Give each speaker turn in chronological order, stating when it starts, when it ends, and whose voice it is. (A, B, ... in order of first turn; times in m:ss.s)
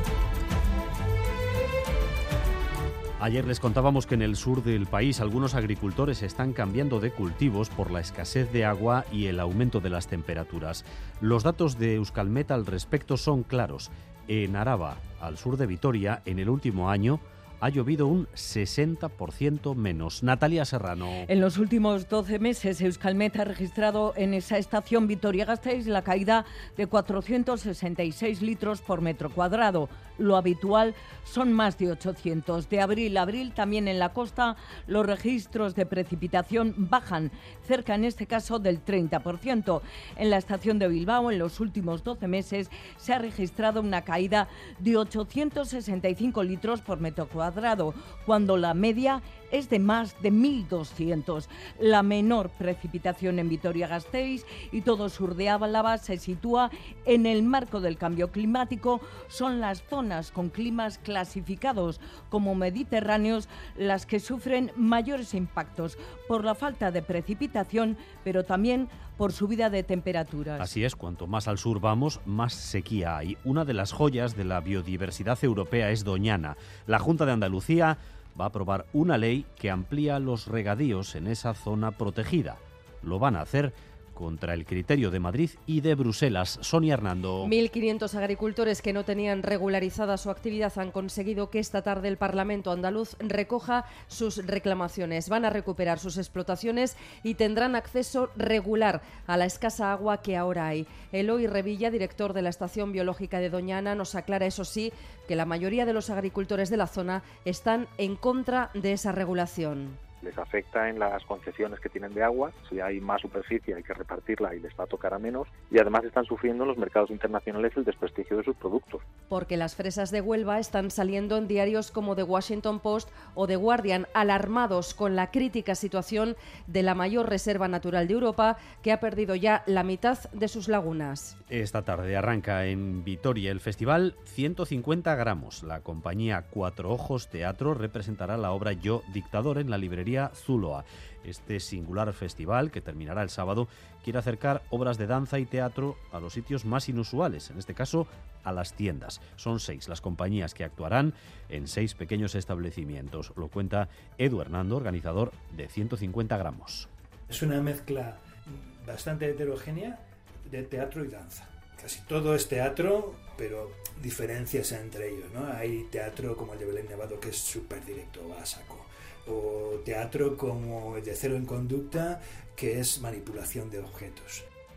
0:03.2-0:21.3 A
0:21.3-0:26.3 B
0:26.8-0:29.7 B
0:30.3-0:34.4 B
0:35.0-0:37.1 B
0:37.7-0:39.3 B
0:40.3-0:42.4 B
0:43.0-0:44.2 B
0:44.9-0:47.6 B
0:48.3-0:49.0 B
0:50.1-0:51.3 B
0:52.0-0:54.2 B
0:54.8-0:56.5 B
0:57.1-0:58.8 B
0:59.4-1:01.8 B
1:02.3-1:03.3 B
1:03.8-1:05.8 B
1:06.4-1:07.7 B
1:08.4-1:10.6 B
1:10.6-1:27.5 A
1:27.4-1:50.0 C
1:50.2-1:59.0 D
1:59.3-2:11.3 C
2:11.5-2:36.9 A
2:37.3-2:38.2 E
2:38.8-2:54.4 E